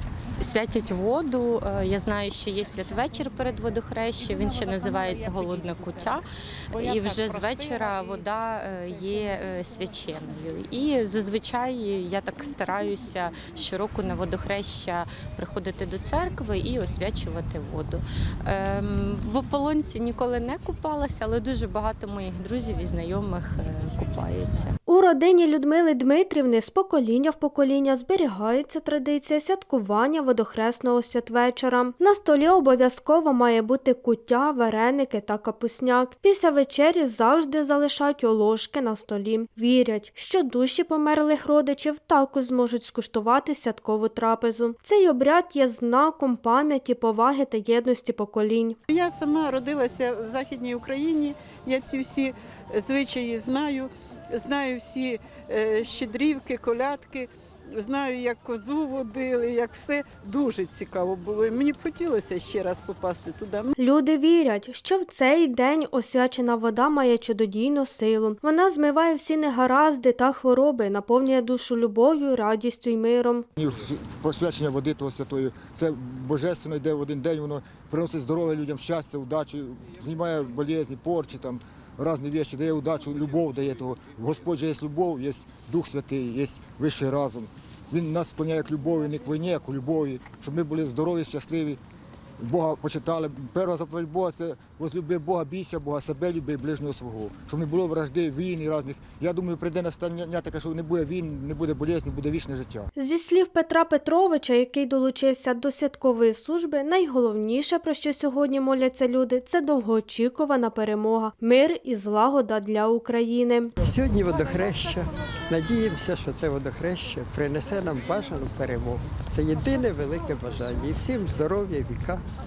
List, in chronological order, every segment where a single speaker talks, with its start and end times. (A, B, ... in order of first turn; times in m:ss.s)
0:00.4-0:24.7 A
0:24.9-0:48.8 B
0:48.9-1:03.8 C
1:03.8-1:13.5 B
1:13.6-1:31.8 D
1:32.4-1:42.9 D
1:43.0-1:53.7 B
1:53.8-2:02.2 E